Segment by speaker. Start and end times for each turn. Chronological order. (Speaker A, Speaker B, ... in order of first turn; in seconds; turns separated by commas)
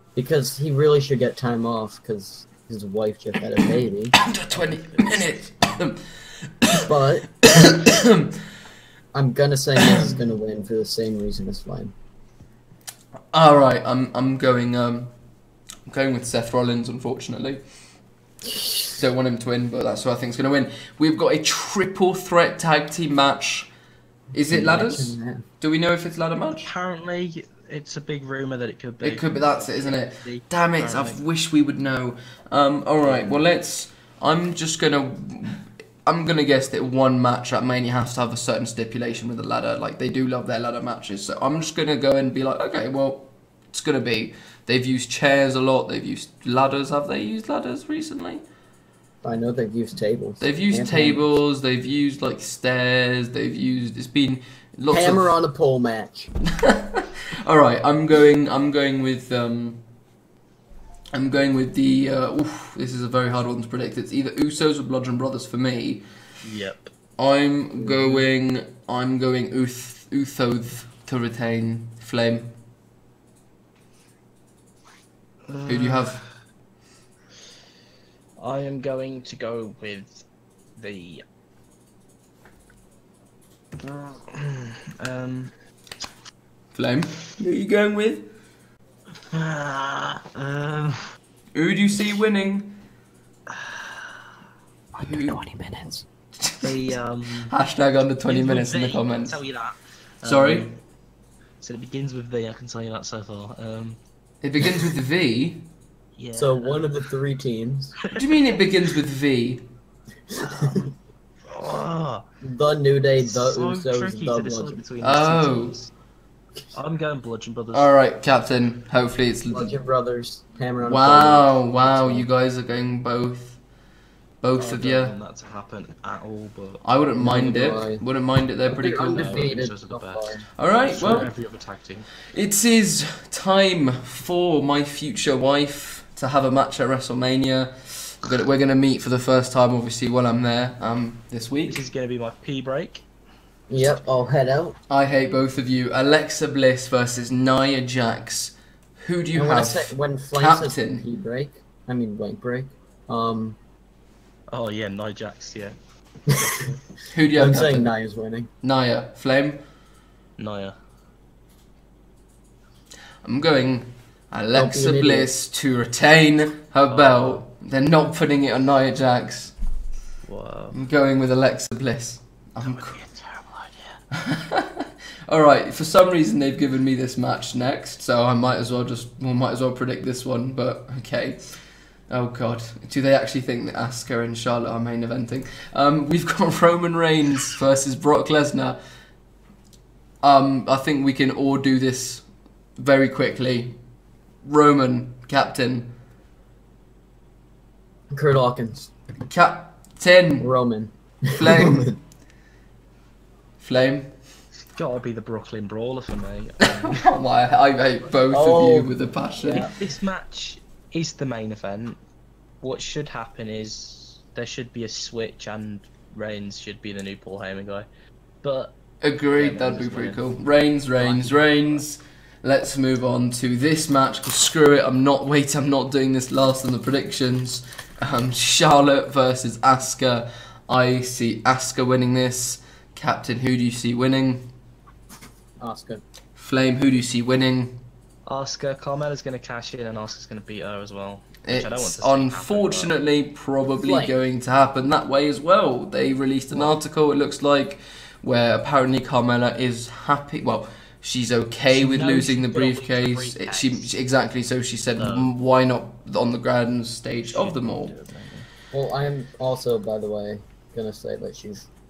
Speaker A: 0.1-4.2, Speaker B: 3.6-6.8, Speaker C: 4.5-5.4, Speaker A: 6.7-7.8, Speaker B: 7.5-8.3, Speaker A: 9.1-11.9, Speaker B: 13.3-15.1, Speaker B: 15.9-17.6, Speaker B: 18.9-23.7, Speaker B: 24.3-26.7, Speaker A: 24.5-25.4, Speaker C: 26.6-31.2, Speaker B: 29.0-48.4, Speaker A: 33.0-33.4, Speaker A: 49.2-51.2, Speaker B: 50.4-55.4, Speaker A: 54.9-56.3, Speaker B: 56.6-59.8, Speaker B: 61.1-66.0, Speaker C: 66.4-66.9, Speaker B: 67.2-72.5, Speaker A: 67.8-68.1, Speaker C: 75.5-76.2, Speaker B: 75.7-76.2, Speaker C: 78.4-80.2, Speaker C: 80.8-81.2, Speaker C: 83.8-85.5, Speaker B: 86.7-88.3, Speaker C: 89.3-91.1, Speaker B: 91.5-92.8, Speaker C: 93.5-94.3, Speaker C: 95.0-96.0, Speaker B: 95.0-95.4, Speaker B: 96.4-96.9, Speaker C: 96.6-97.5, Speaker B: 97.5-99.4, Speaker C: 98.2-100.8, Speaker B: 100.2-100.7, Speaker C: 101.6-104.0, Speaker B: 104.4-105.6, Speaker C: 106.2-107.0, Speaker A: 106.3-107.9, Speaker B: 108.1-109.6, Speaker A: 110.3-110.9, Speaker C: 110.5-110.9, Speaker C: 111.5-112.2, Speaker A: 112.4-114.8, Speaker C: 113.2-115.9, Speaker B: 115.0-115.8, Speaker C: 116.7-118.0, Speaker B: 117.7-119.7, Speaker A: 119.5-122.3, Speaker B: 120.8-123.6, Speaker B: 124.4-125.1, Speaker C: 124.6-126.8, Speaker B: 126.8-129.7, Speaker A: 127.2-128.0, Speaker A: 128.7-130.4, Speaker C: 128.8-132.1, Speaker B: 130.6-131.3, Speaker B: 132.3-141.8, Speaker C: 141.7-143.0, Speaker A: 143.7-144.8, Speaker B: 144.9-151.0, Speaker A: 149.3-153.6, Speaker C: 154.5-155.8, Speaker A: 156.3-156.7, Speaker B: 157.1-157.9, Speaker A: 157.3-158.5, Speaker B: 158.6-159.6, Speaker C: 160.4-160.7, Speaker B: 163.2-169.5, Speaker A: 164.5-165.3, Speaker C: 166.9-167.4, Speaker C: 170.2-170.8, Speaker B: 170.7-173.0, Speaker C: 172.6-174.0, Speaker B: 174.1-181.4, Speaker B: 182.1-188.8, Speaker B: 190.2-192.2, Speaker B: 192.8-193.7, Speaker B: 194.4-195.9, Speaker A: 198.1-198.9, Speaker B: 199.3-200.5, Speaker A: 200.4-201.9, Speaker B: 201.4-201.9, Speaker B: 203.6-204.1, Speaker C: 204.7-207.1, Speaker B: 206.9-209.7, Speaker A: 208.3-209.7, Speaker C: 209.6-212.0, Speaker C: 212.6-217.9, Speaker C: 218.4-220.4, Speaker B: 219.0-234.5, Speaker C: 220.9-221.8, Speaker A: 235.6-236.0, Speaker B: 236.3-237.8, Speaker C: 238.2-242.9, Speaker B: 241.4-257.9, Speaker A: 243.8-244.1, Speaker C: 251.7-253.9, Speaker C: 255.0-255.3, Speaker C: 257.2-258.5, Speaker A: 258.7-261.6